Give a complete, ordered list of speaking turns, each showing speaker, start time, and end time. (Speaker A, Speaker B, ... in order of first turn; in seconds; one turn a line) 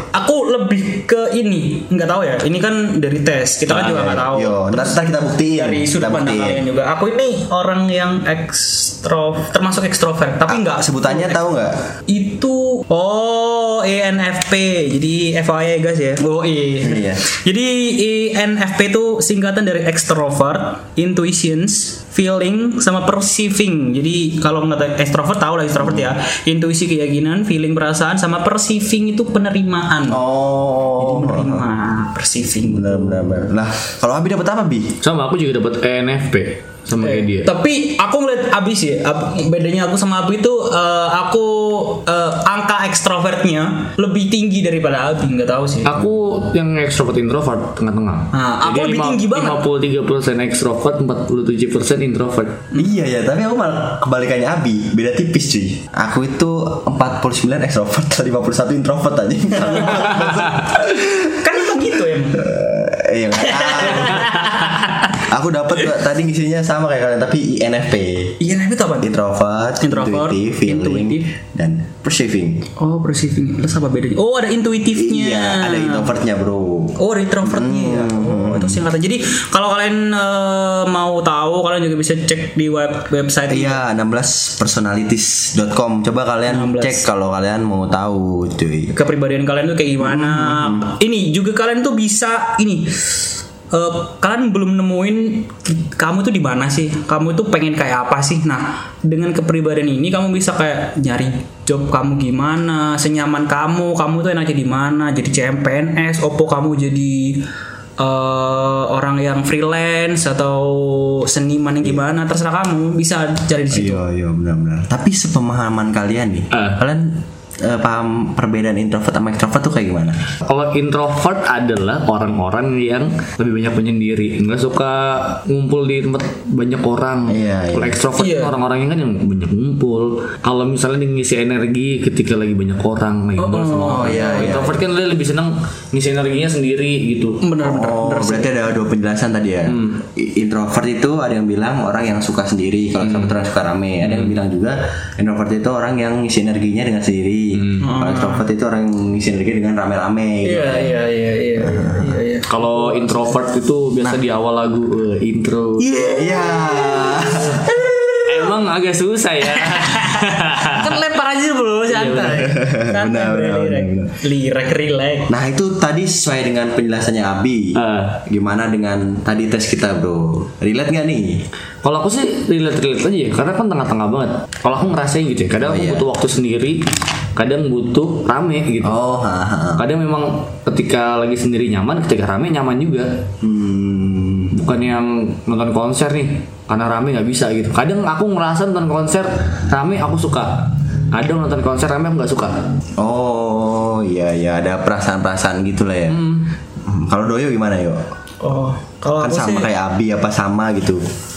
Speaker A: 0.1-11.4
Speaker B: 3.7-6.6
Speaker B: 10.4-11.8
Speaker A: 12.1-30.2
Speaker B: 16.8-17.2
Speaker B: 25.8-26.1
Speaker B: 30.1-31.7
Speaker A: 31.0-33.4
Speaker B: 32.7-35.0
Speaker C: 35.0-37.5
Speaker A: 37.0-45.9
Speaker C: 45.8-52.6
Speaker A: 48.3-49.6
Speaker B: 52.7-61.6
Speaker A: 59.6-60.3
Speaker A: 61.3-62.5
Speaker B: 62.4-64.4
Speaker A: 63.5-64.7
Speaker B: 65.1-68.4
Speaker A: 68.4-69.1
Speaker B: 69.0-72.7
Speaker A: 69.8-71.3
Speaker A: 72.8-76.0
Speaker B: 74.9-78.8
Speaker A: 77.0-83.8
Speaker B: 83.5-88.9
Speaker A: 86.5-87.0
Speaker A: 88.9-107.4
Speaker B: 90.0-90.9
Speaker A: 108.0-114.0
Speaker B: 113.7-120.2
Speaker C: 116.5-116.8
Speaker C: 120.5-137.4
Speaker B: 127.3-128.0
Speaker A: 128.2-128.5
Speaker A: 133.4-134.6
Speaker B: 133.8-134.8
Speaker A: 137.4-138.7
Speaker B: 137.6-151.0
Speaker C: 139.7-140.0
Speaker C: 143.0-143.3
Speaker C: 144.0-144.3
Speaker C: 147.6-147.8
Speaker A: 147.8-148.4
Speaker A: 150.4-153.3
Speaker B: 151.6-152.2
Speaker C: 152.5-155.9
Speaker A: 155.8-158.5
Speaker B: 156.1-157.7
Speaker C: 158.2-160.9
Speaker A: 159.6-165.3
Speaker C: 161.9-162.4
Speaker B: 162.4-164.1
Speaker B: 165.3-171.4
Speaker C: 167.7-168.2
Speaker C: 171.8-176.8
Speaker B: 175.6-176.1
Speaker C: 177.3-178.9
Speaker B: 178.8-179.8
Speaker C: 179.8-183.1
Speaker B: 183.4-184.6
Speaker C: 184.5-192.6
Speaker B: 193.0-196.2
Speaker B: 196.8-198.0
Speaker A: 198.4-199.7
Speaker B: 199.2-201.0